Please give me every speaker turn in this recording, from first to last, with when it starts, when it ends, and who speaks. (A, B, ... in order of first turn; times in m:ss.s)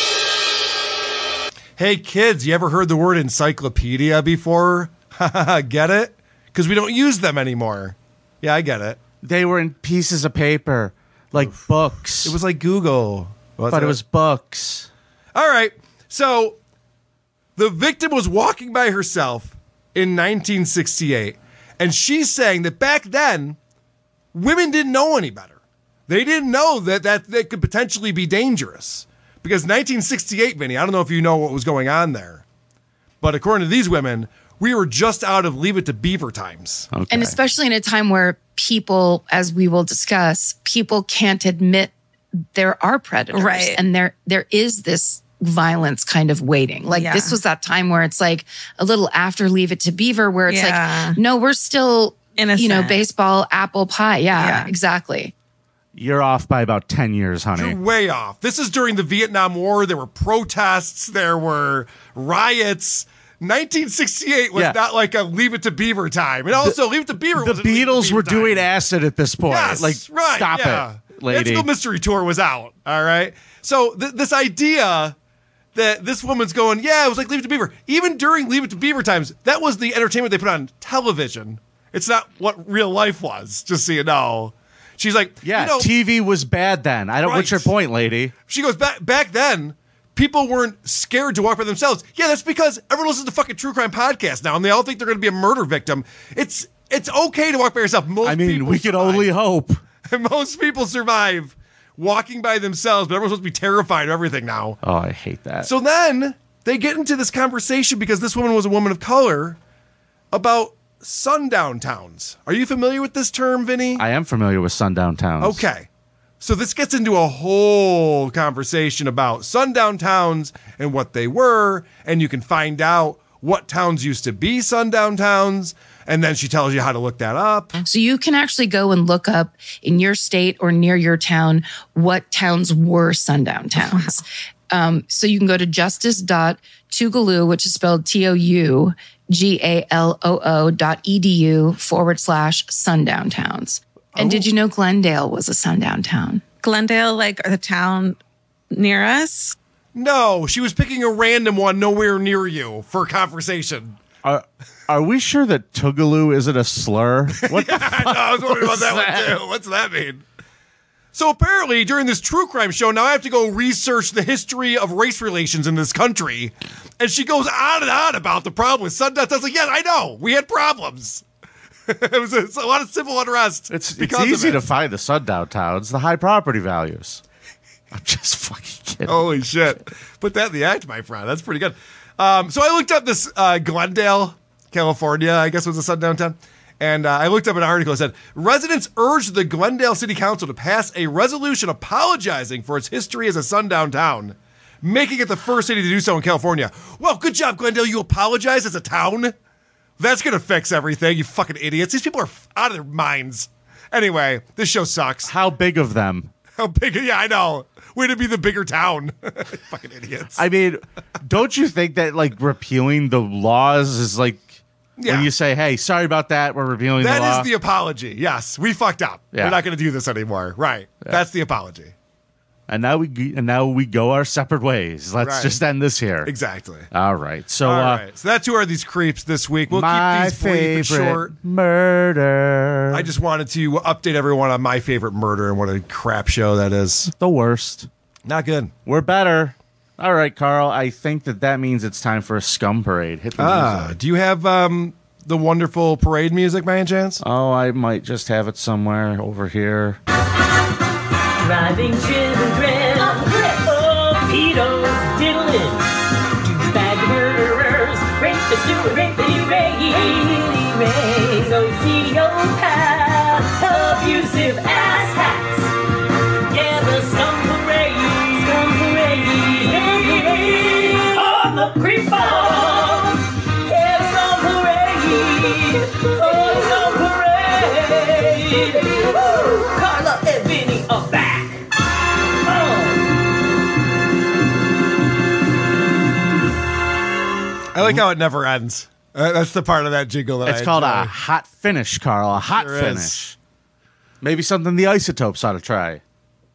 0:01.8-0:09.0 A
0:09.2-0:12.4 B
0:12.2-0:14.0 A
0:13.7-0:14.9 B
0:15.3-0:16.6 A
0:17.6-0:23.6 A
0:24.3-0:32.4 A
0:33.2-0:36.9 A
0:36.9-0:37.3 B
0:37.1-0:41.9 C
0:42.5-0:55.3 C
0:43.3-0:43.8 D
0:46.9-0:47.4 D
0:50.5-0:51.2 D
0:52.4-0:53.0 D
0:54.4-0:54.7 D
0:56.0-0:57.8 B
0:57.5-1:08.7 A
1:07.3-1:11.7 B
1:09.5-1:15.1 A
1:15.7-1:25.9 A
1:25.4-1:28.3 B
1:27.2-1:27.7 A
1:28.5-1:39.3 A
1:38.2-1:39.8 B
1:40.1-1:44.8 A
1:44.8-1:45.7 B
1:45.6-1:49.6 A
1:50.3-1:54.0 A
1:54.0-1:55.6 B
1:55.4-1:55.9 A
1:56.4-2:07.7 A
2:07.8-2:26.4 C
2:13.8-2:14.1 D
2:24.2-2:24.4 A
2:26.6-2:28.2 D
2:28.7-2:29.6 D
2:29.9-2:34.0 A
2:34.2-2:39.4 B
2:37.4-2:40.2 A
2:41.1-2:51.2 A
2:51.9-2:54.6 A
2:53.7-2:57.2 B
2:57.9-2:59.2 B
2:59.0-3:19.3 A
3:20.0-3:25.3 A
3:25.2-3:26.3 B
3:26.6-3:30.4 A
3:30.4-3:37.5 B
3:35.0-3:35.3 A
3:37.0-3:41.9 A
3:39.3-3:39.6 B
3:42.7-3:46.3 B
3:45.2-3:45.6 A
3:46.2-3:46.9 A
3:46.9-3:48.0 B
3:47.6-3:51.3 A
3:49.7-3:53.1 B
3:52.9-3:57.1 A
3:57.2-3:57.9 B
3:58.2-3:58.7 A
3:58.8-4:03.9 B
4:03.4-4:07.2 A
4:07.2-4:10.0 B
4:11.4-4:15.9 E
4:16.4-4:25.7 E
4:26.5-4:41.6 E
4:42.4-4:43.0 E
4:47.7-4:51.1 A
4:50.4-4:53.3 B
4:52.4-4:53.2 A
4:54.2-4:56.0 B